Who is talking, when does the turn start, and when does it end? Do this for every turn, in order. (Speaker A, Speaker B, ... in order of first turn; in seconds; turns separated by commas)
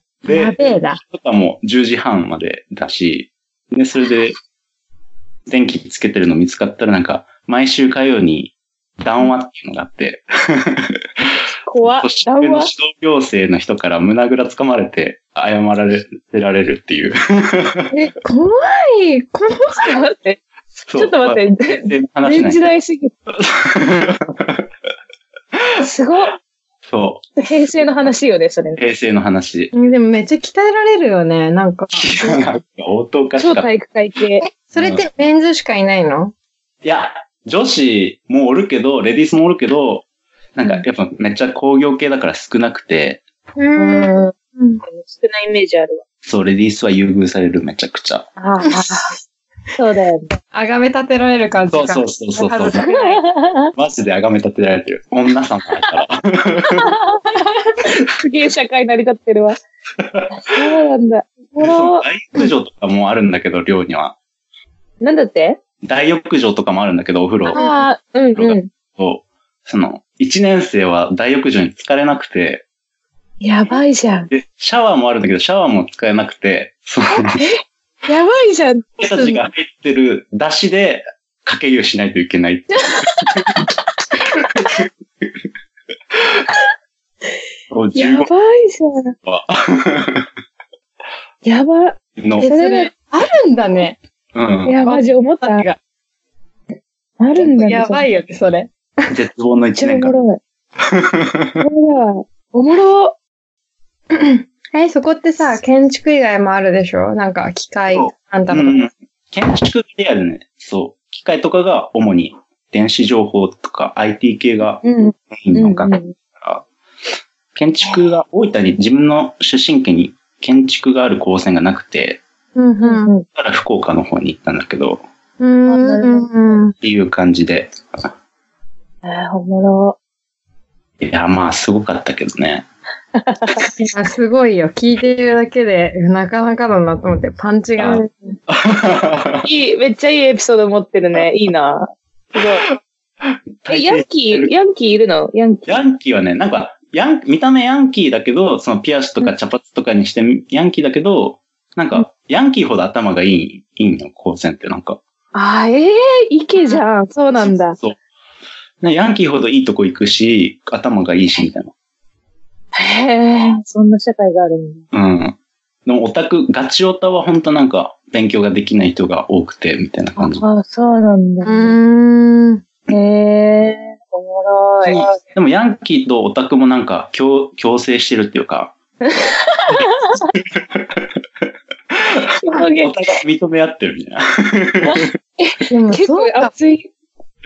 Speaker A: 0.2-4.4, Speaker B: 0.3-1.0, Speaker A: 5.5-11.0, Speaker C: 11.7-12.7, Speaker A: 11.8-17.9, Speaker B: 18.2-20.0, Speaker C: 19.8-20.4, Speaker A: 20.9-22.6, Speaker C: 20.9-23.1, Speaker A: 23.3-24.7, Speaker C: 25.8-26.3, Speaker A: 26.9-27.3, Speaker C: 27.4-28.8, Speaker A: 28.8-29.7, Speaker B: 29.7-32.4, Speaker A: 31.9-33.7, Speaker C: 33.4-34.5, Speaker B: 34.4-36.3, Speaker A: 34.8-35.0, Speaker A: 36.8-43.2, Speaker B: 43.6-44.8, Speaker C: 43.8-44.3, Speaker C: 44.9-46.0, Speaker A: 46.2-48.3, Speaker C: 48.4-49.2, Speaker C: 49.8-50.3, Speaker B: 50.5-53.2, Speaker A: 51.7-52.8, Speaker C: 52.8-53.7, Speaker A: 53.8-56.9, Speaker C: 56.7-59.6, Speaker A: 60.0-60.3, Speaker C: 60.3-62.0, Speaker A: 61.6-64.2, Speaker C: 65.0-65.6, Speaker A: 65.8-67.6, Speaker C: 67.5-68.7, Speaker B: 67.5-67.8, Speaker A: 68.3-72.6, Speaker C: 73.4-74.3, Speaker A: 74.3-77.4, Speaker C: 77.1-79.4, Speaker A: 79.0-83.5, Speaker C: 82.9-83.6, Speaker A: 84.4-85.3, Speaker A: 86.2-86.4, Speaker A: 87.7-88.3, Speaker C: 87.9-89.1, Speaker A: 89.2-90.3, Speaker C: 91.4-92.9, Speaker A: 92.2-92.5, Speaker B: 92.4-94.0, Speaker A: 94.3-94.7, Speaker C: 94.7-95.7, Speaker B: 94.8-95.8, Speaker C: 97.2-98.0, Speaker B: 97.6-98.7, Speaker A: 99.1-100.1, Speaker C: 99.8-100.4, Speaker A: 100.8-101.6, Speaker C: 101.6-103.1, Speaker B: 104.1-108.8, Speaker A: 107.9-116.7, Speaker C: 114.8-116.1, Speaker A: 117.5-122.2, Speaker B: 122.5-123.1, Speaker C: 122.8-123.2, Speaker A: 123.3-125.0, Speaker B: 125.4-126.7, Speaker C: 125.7-126.3, Speaker A: 126.8-128.1, Speaker C: 129.0-130.0, Speaker A: 131.0-132.7, Speaker C: 133.1-133.6, Speaker B: 133.7-138.1, Speaker A: 137.8-139.4, Speaker C: 139.4-142.6, Speaker A: 143.2-144.5, Speaker C: 143.7-145.7, Speaker A: 145.7-155.0, Speaker C: 155.3-157.8, Speaker A: 158.8-161.7, Speaker C: 162.7-164.8, Speaker A: 164.9-170.4, Speaker C: 170.2-171.7, Speaker B: 171.4-172.6, Speaker C: 172.9-175.0, Speaker A: 174.8-178.7, Speaker C: 179.0-180.3, Speaker A: 180.5-181.1, Speaker A: 181.9-185.1, Speaker C: 182.4-182.9, Speaker C: 184.8-186.9, Speaker B: 185.7-186.5